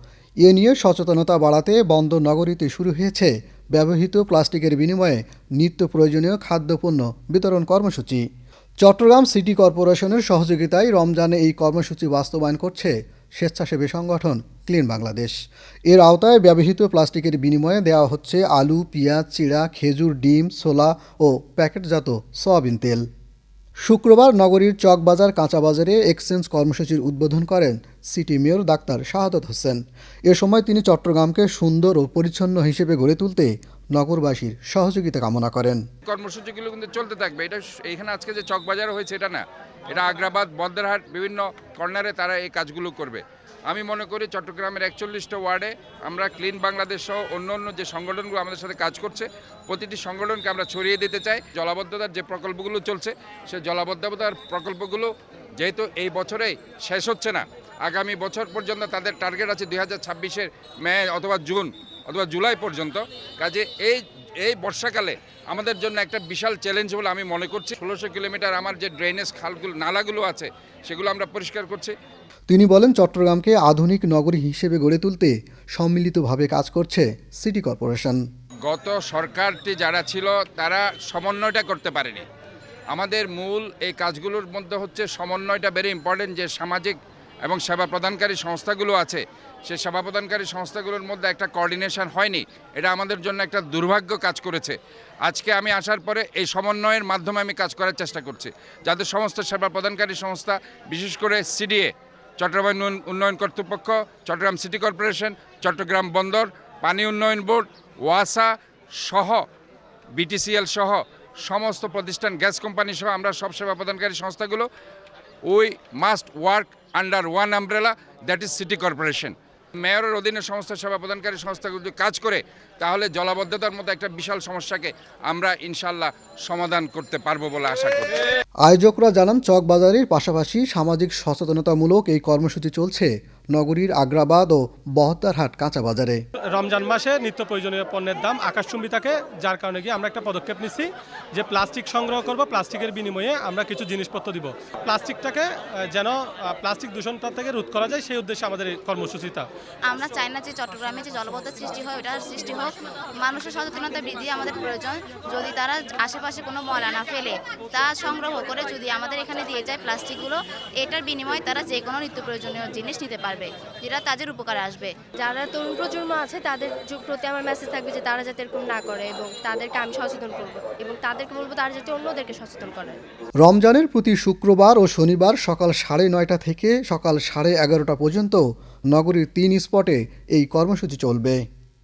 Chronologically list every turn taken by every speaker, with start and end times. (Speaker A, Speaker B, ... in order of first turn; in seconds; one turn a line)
Speaker A: 0.4-8.2
Speaker A: 8.8-15.4
Speaker A: 15.9-23.1
Speaker A: 23.9-35.8
Speaker B: 36.0-71.9
Speaker A: 72.5-78.2
Speaker B: 78.7-82.2
Speaker B: 82.9-108.5
Speaker B: 109.0-109.4
Speaker B: 110.2-114.7
Speaker B: 115.5-128.2
Speaker A: 128.6-136.2
Speaker C: 136.5-149.5
Speaker D: 149.9-164.9
Speaker E: 165.2-173.0
Speaker A: 173.4-181.4